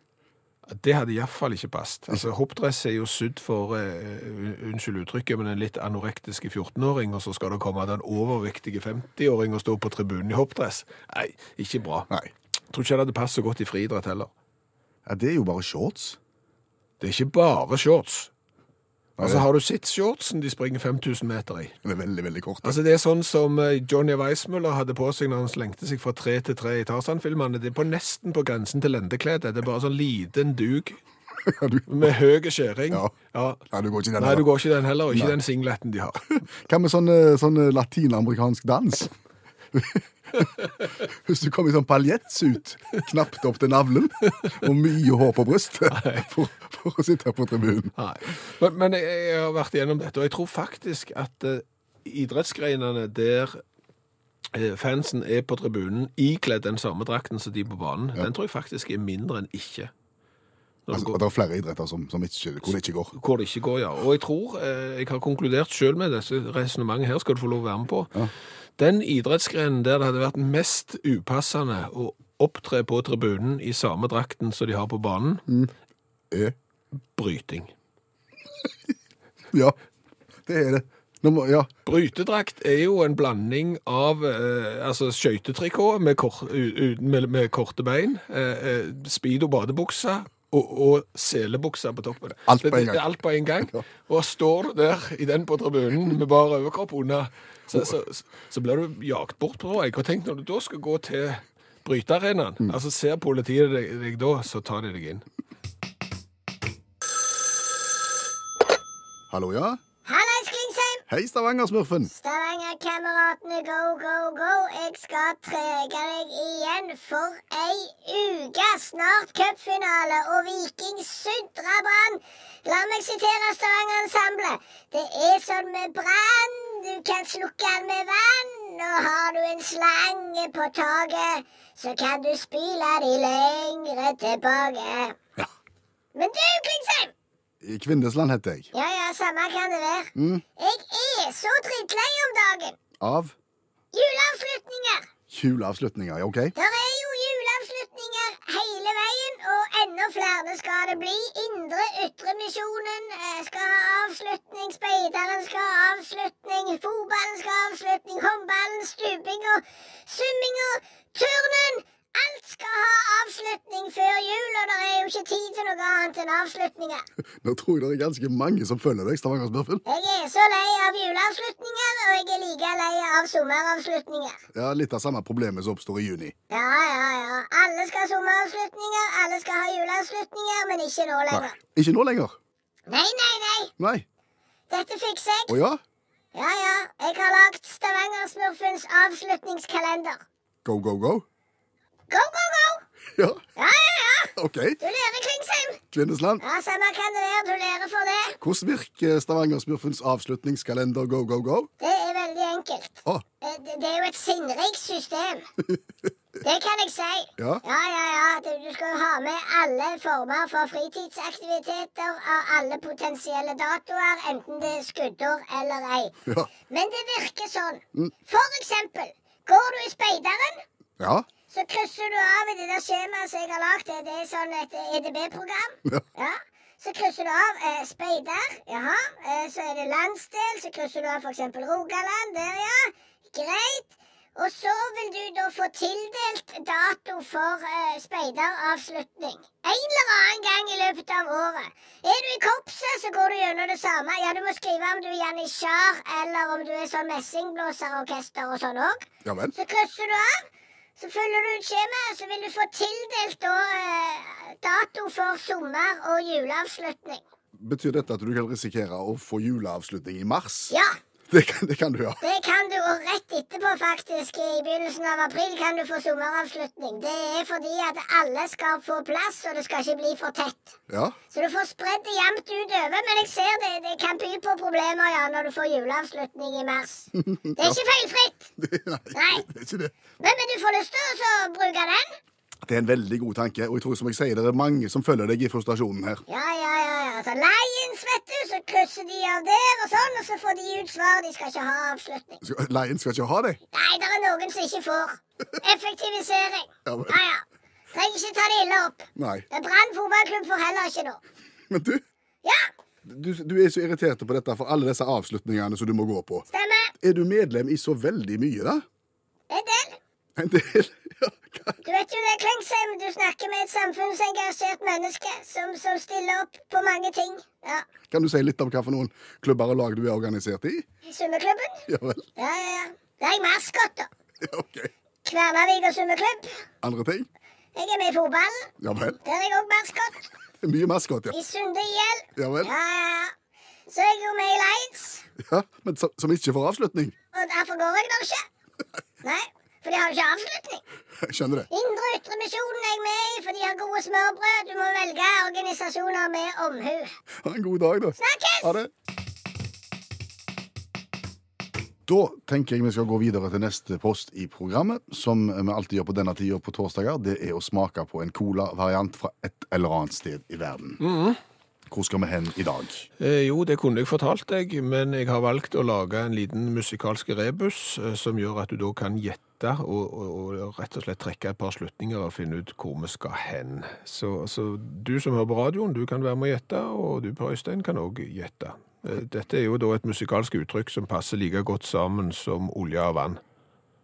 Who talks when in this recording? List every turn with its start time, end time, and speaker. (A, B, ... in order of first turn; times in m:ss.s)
0:00.7-0:12.1 A
0:12.7-0:14.3 A
0:15.0-0:16.2 B
0:17.0-0:18.3 A
0:19.2-0:19.4 B
0:19.2-0:21.8 A
0:21.8-0:22.8 B
0:22.6-0:31.0 A
0:31.4-0:32.1 B
0:31.9-0:33.6 A
0:33.7-0:34.5 B
0:34.2-0:36.4 A
0:35.1-0:35.4 B
0:36.5-0:39.1 B
0:39.7-0:40.5 B
0:41.0-0:47.9 B
0:45.9-0:46.3 A
0:48.0-0:53.6 A
0:54.5-0:59.9 A
1:00.9-1:01.2 A
1:00.9-1:03.1 B
1:03.1-1:08.1 A
1:08.8-1:15.5 A
1:16.3-1:16.6 B
1:17.1-1:17.7 A
1:20.4-1:21.7 B
1:21.8-1:45.2 A
1:32.4-1:33.0 B
1:49.3-1:49.8 B
1:50.0-1:51.0 C
1:51.1-1:52.1 B
1:52.1-2:15.2 C
2:16.1-2:17.1 C
2:17.6-2:18.7 B
2:18.7-2:22.8 C
2:20.2-2:20.4 B
2:23.0-2:23.4 B
2:23.9-2:25.1 C
2:25.3-2:26.5 B
2:26.6-2:47.0 C
2:47.4-2:49.8 B
2:49.8-2:54.4 C
2:54.5-2:56.3 B
2:56.5-3:01.6 C
3:01.3-3:02.4 B
3:02.9-3:03.7 C
3:03.8-3:04.0 B
3:04.7-3:05.6 C
3:05.5-3:05.8 B
3:06.3-3:10.2 C
3:10.6-3:11.2 B
3:12.1-3:12.8 C
3:13.1-3:13.4 B
3:13.6-3:15.8 C
3:14.4-3:14.8 B
3:15.9-3:16.4 B
3:16.4-3:18.4 C
3:18.4-3:21.7 B
3:21.8-3:25.4 C
3:26.4-3:36.2 C
3:27.4-3:27.6 B
3:36.7-3:40.6 C
3:41.0-3:41.3 B
3:41.5-4:10.4 C
4:09.2-4:09.6 B
4:11.0-4:17.2 C
4:17.6-4:20.7 B
4:20.7-4:21.0 C
4:21.3-4:22.2 B
4:22.2-4:30.8 C
4:30.9-4:31.2 B
4:31.3-4:38.5 C
4:37.2-4:37.8 B
4:38.6-4:39.9 B
4:39.1-4:39.4 C
4:40.2-4:42.2 C
4:42.6-4:46.2 B
4:46.3-4:52.4 C
4:52.4-4:53.6 B
4:53.7-5:01.2 C
4:56.8-4:57.2 B
4:59.2-4:59.5 B
5:01.7-5:02.0 B
5:03.0-5:06.5 B
5:06.5-5:06.9 C
5:07.0-5:08.8 B
5:09.5-5:10.0 C
5:10.4-5:11.8 B
5:11.8-5:17.9 C
5:18.1-5:20.8 B
5:21.0-5:24.1 C
5:21.9-5:22.2 B
5:24.4-5:24.9 B
5:25.2-5:26.6 C
5:26.8-5:27.3 B
5:27.7-5:28.7 C
5:28.8-5:29.2 B
5:29.2-5:30.3 C
5:30.6-5:31.4 B
5:31.3-5:33.3 C
5:32.4-5:32.7 B
5:33.9-5:35.2 C
5:35.4-5:37.2 B
5:37.3-5:38.5 C
5:39.2-5:40.8 C
5:41.2-5:41.7 B
5:41.7-5:47.2 C
5:47.4-5:48.9 B
5:48.2-5:48.7 C
5:52.1-6:01.0 B
6:01.0-6:01.4 A
6:01.9-6:03.1 B
6:03.2-6:23.4 A